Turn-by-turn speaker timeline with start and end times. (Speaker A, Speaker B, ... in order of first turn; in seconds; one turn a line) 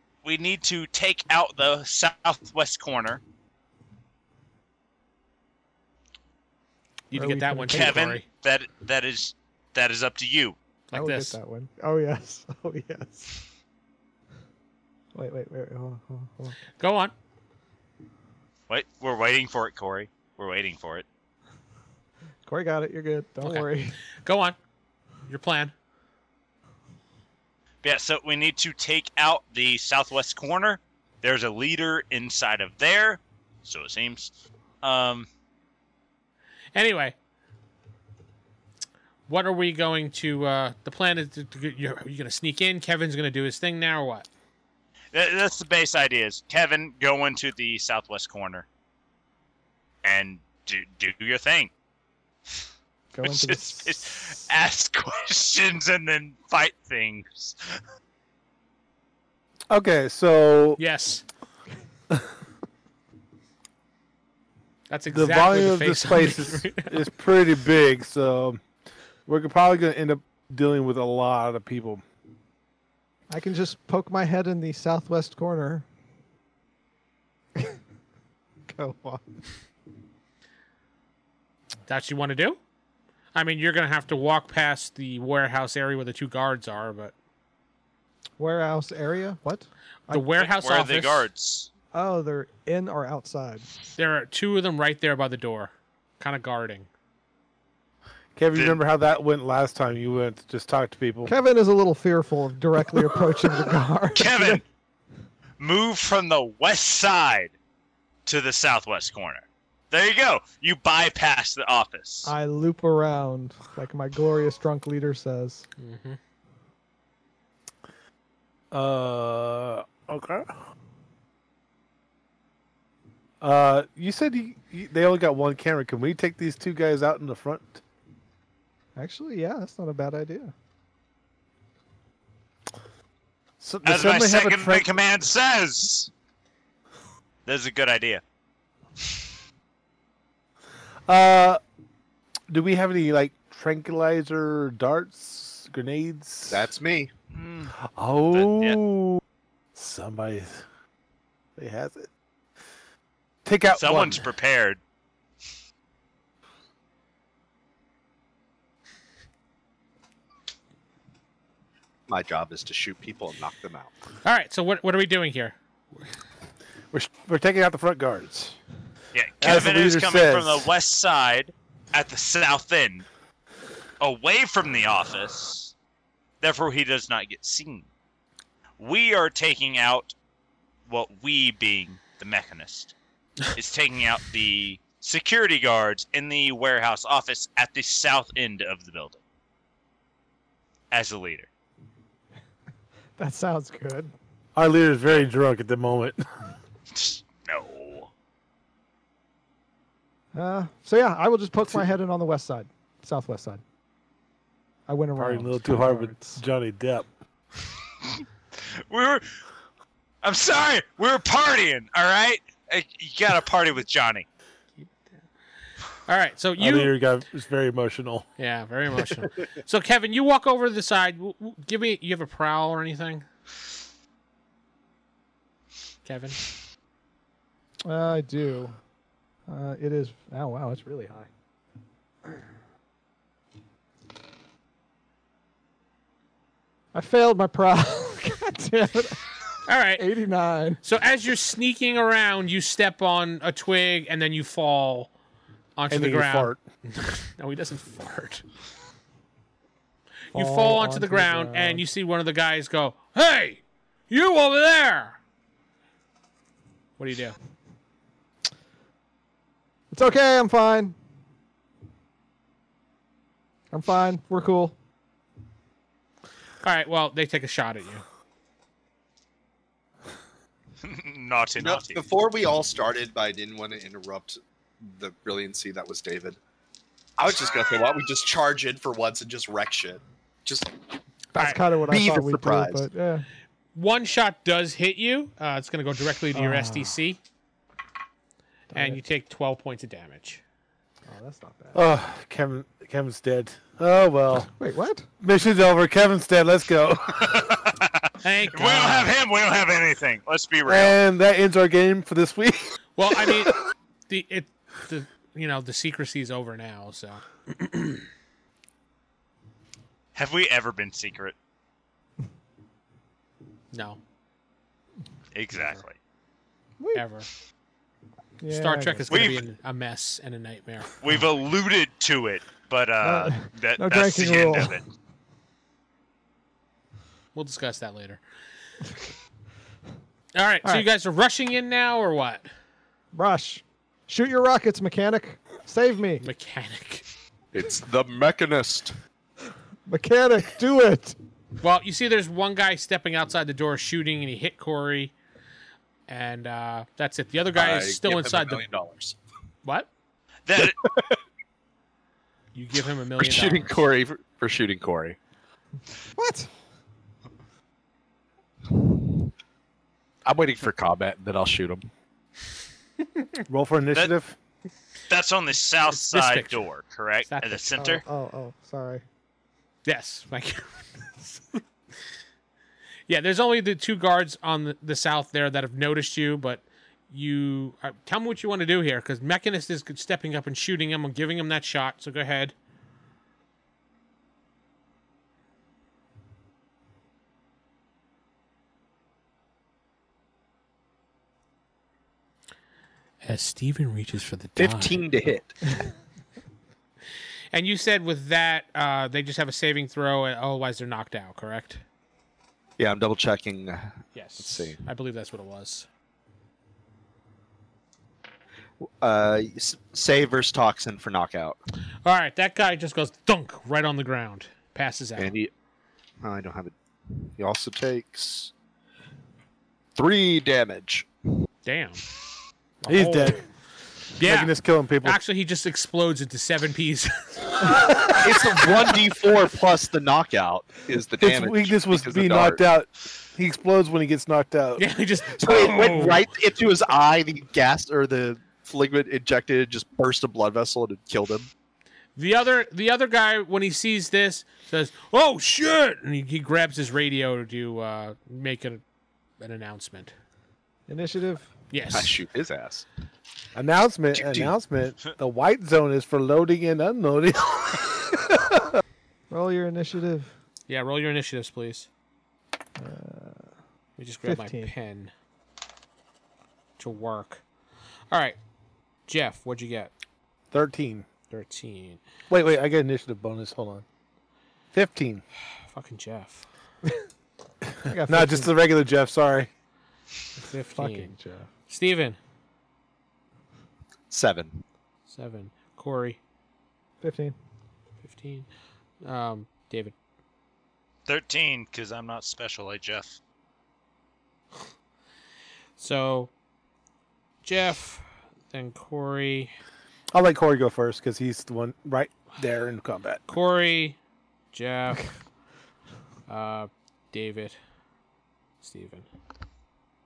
Speaker A: 0.2-3.2
Speaker B: 7.1-8.2
Speaker C: 7.2-8.0
Speaker A: 7.7-10.6
Speaker B: 10.9-11.4
Speaker C: 10.9-13.4
Speaker C: 15.2-16.6
Speaker B: 16.8-17.1
Speaker A: 18.7-21.1
Speaker C: 22.5-24.0
Speaker B: 23.4-23.7
Speaker B: 24.2-24.6
Speaker B: 25.3-25.7
Speaker A: 27.8-34.3
Speaker A: 34.8-35.3
Speaker B: 36.8-37.2
Speaker B: 39.3-44.3
Speaker A: 45.1-48.7
Speaker A: 50.0-51.7
Speaker C: 53.1-54.0
Speaker A: 53.2-57.6
Speaker D: 59.7-60.8
Speaker B: 60.8-61.2
Speaker B: 64.9-67.0
Speaker D: 65.1-68.6
Speaker D: 69.3-72.0
Speaker C: 73.3-75.8
Speaker C: 78.7-79.2
Speaker B: 81.9-82.6
Speaker B: 83.3-87.1
Speaker C: 88.4-90.2
Speaker B: 90.1-91.3
Speaker A: 90.4-91.7
Speaker C: 91.9-93.7
Speaker B: 94.0-96.9
Speaker D: 98.4-101.3
Speaker A: 98.5-98.8
Speaker C: 101.3-104.6
Speaker A: 104.2-104.6
Speaker A: 105.6-107.5
Speaker A: 108.3-112.3
Speaker C: 112.2-115.7
Speaker B: 115.8-116.2
Speaker D: 118.7-120.5
Speaker D: 123.4-127.8
Speaker C: 129.0-130.5
Speaker D: 133.6-134.9
Speaker A: 133.8-136.1
Speaker A: 137.5-138.2
Speaker D: 141.1-141.6
Speaker D: 142.5-146.7
Speaker E: 146.5-147.1
Speaker A: 147.3-147.7
Speaker D: 147.8-149.2
Speaker A: 148.3-148.8
Speaker D: 149.8-150.6
Speaker D: 151.6-152.1
Speaker D: 153.4-154.2
Speaker A: 153.7-154.8
Speaker E: 162.1-163.9
Speaker B: 164.2-165.6
Speaker D: 166.9-168.6
Speaker A: 169.1-173.1
Speaker D: 169.4-170.7
Speaker A: 174.0-175.7
Speaker A: 176.4-177.9
Speaker A: 178.8-180.2
Speaker A: 180.9-182.9
Speaker A: 183.5-189.2
Speaker A: 190.9-191.5
Speaker C: 193.2-194.1
Speaker D: 194.6-196.2
Speaker A: 196.9-198.1
Speaker C: 200.3-203.6
Speaker C: 204.9-206.4
Speaker D: 205.2-207.1
Speaker A: 208.6-209.2
Speaker A: 210.2-214.2
Speaker B: 216.1-216.9
Speaker D: 216.6-218.3
Speaker B: 218.4-223.3
Speaker B: 226.1-226.4
Speaker C: 227.8-228.8
Speaker C: 229.5-231.3
Speaker C: 236.9-239.2
Speaker B: 239.7-240.1
Speaker C: 240.0-240.8
Speaker B: 240.8-245.1
Speaker B: 245.8-248.4
Speaker D: 245.9-246.6
Speaker B: 250.3-255.2
Speaker C: 250.3-251.8
Speaker B: 257.0-257.4
Speaker C: 259.9-260.9
Speaker C: 263.7-264.8
Speaker B: 266.6-268.0
Speaker A: 270.8-272.0
Speaker E: 271.6-276.4
Speaker E: 277.2-280.7
Speaker C: 281.3-283.3
Speaker E: 281.9-282.9
Speaker B: 283.8-287.2
Speaker C: 286.3-286.9
Speaker C: 288.7-289.0
Speaker B: 288.7-290.4
Speaker C: 291.1-291.8
Speaker D: 291.7-294.5
Speaker C: 294.6-295.1
Speaker D: 295.2-297.6
Speaker A: 297.2-301.0
Speaker B: 298.2-299.1
Speaker D: 300.7-302.7
Speaker B: 303.0-308.1
Speaker A: 310.1-311.4
Speaker B: 313.7-314.0
Speaker A: 315.3-315.9
Speaker B: 316.9-317.3
Speaker C: 318.4-319.4
Speaker B: 318.5-320.9
Speaker A: 319.1-319.4
Speaker A: 321.0-324.8
Speaker C: 323.0-324.8
Speaker B: 327.4-328.2
Speaker B: 330.4-332.5
Speaker C: 333.1-336.2
Speaker B: 336.2-337.1
Speaker E: 337.5-338.9
Speaker C: 339.9-341.2
Speaker B: 341.6-345.1
Speaker B: 346.1-348.6
Speaker E: 347.5-349.2
Speaker A: 350.5-350.8
Speaker E: 350.6-351.2
Speaker B: 352.6-353.9
Speaker E: 353.2-355.2
Speaker C: 356.2-356.5
Speaker E: 358.7-359.3
Speaker E: 360.2-361.9
Speaker D: 363.5-364.4
Speaker A: 365.1-368.0
Speaker B: 365.9-366.6
Speaker B: 367.3-367.9
Speaker C: 367.8-369.0
Speaker B: 369.9-371.6
Speaker B: 373.1-382.6
Speaker B: 393.2-395.1
Speaker E: 394.6-395.6
Speaker B: 397.5-401.8
Speaker E: 402.8-404.8
Speaker B: 404.1-405.9
Speaker E: 408.8-411.6
Speaker B: 412.1-415.4
Speaker E: 415.2-415.5
Speaker E: 416.2-418.5
Speaker E: 419.9-421.1
Speaker B: 421.6-422.0
Speaker B: 422.8-423.4
Speaker D: 422.9-423.4
Speaker B: 424.2-428.1
Speaker D: 424.2-425.2
Speaker E: 428.0-432.6
Speaker D: 431.2-434.8
Speaker B: 434.8-436.3
Speaker E: 435.4-441.5
Speaker B: 442.2-448.8
Speaker B: 449.4-450.1
Speaker C: 450.9-451.5
Speaker B: 451.7-452.2
Speaker E: 451.9-452.9
Speaker D: 453.6-458.8
Speaker E: 454.1-454.5
Speaker C: 459.3-460.3
Speaker B: 460.7-461.9
Speaker C: 462.8-463.4
Speaker B: 464.0-465.1
Speaker C: 464.2-464.7
Speaker B: 466.8-467.4
Speaker B: 468.1-468.4
Speaker B: 469.1-469.9
Speaker D: 470.5-471.1
Speaker B: 471.3-472.0
Speaker D: 472.3-473.8
Speaker D: 474.7-475.2
Speaker B: 475.7-476.5
Speaker D: 477.8-479.5
Speaker C: 477.9-478.5
Speaker B: 480.4-481.1
Speaker C: 480.8-481.5
Speaker B: 481.7-482.2
Speaker E: 484.1-484.6
Speaker B: 485.1-486.2
Speaker C: 487.0-487.4
Speaker B: 488.0-488.5
Speaker B: 489.0-489.9
Speaker A: 491.1-493.2
Speaker B: 495.8-496.3
Speaker B: 497.4-499.5
Speaker D: 500.1-503.2
Speaker B: 503.3-504.0
Speaker B: 504.5-505.1
Speaker B: 506.3-507.6
Speaker B: 508.6-509.1